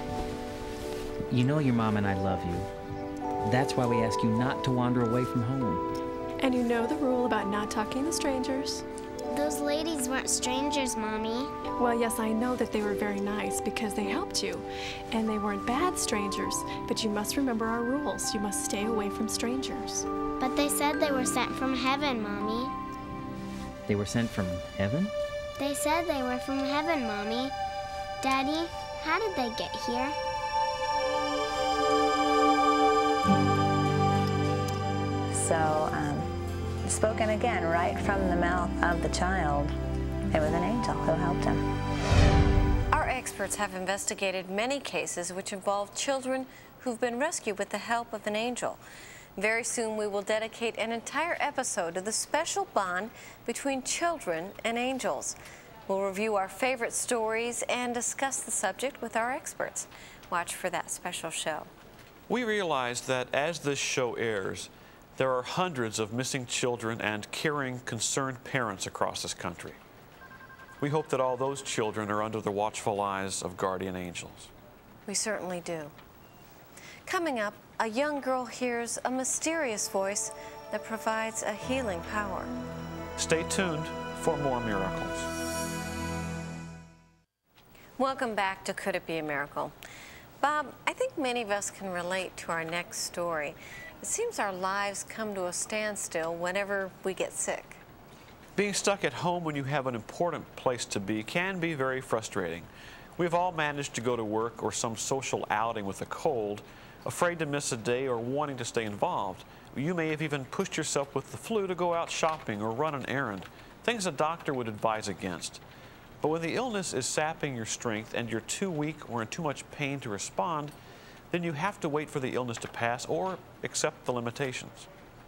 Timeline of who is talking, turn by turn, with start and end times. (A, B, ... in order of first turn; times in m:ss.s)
0:01.3-0:02.7 A
0:03.4-0:05.8 A
0:06.4-0:08.8 B
0:09.3-0:11.5 C
0:11.8-0:20.0 B
0:20.4-0:22.7 C
0:23.9-0:25.1 A
0:25.6-0:27.5 C
0:28.2-0:30.2 C
0:35.3-0:36.3 D
0:36.8-0:39.7 D
0:40.3-0:41.6 D
0:42.9-0:48.8 E
0:49.4-0:55.4 E
0:55.9-1:01.7 E
1:02.3-1:09.8 F
1:10.8-1:14.5 F
1:15.0-1:15.9 E
1:17.1-1:22.5 E
1:23.2-1:25.3 F
1:28.0-1:29.7 E
1:30.4-1:37.8 E
1:38.6-1:55.6 F
1:56.2-2:00.7 F
2:01.3-2:04.9 F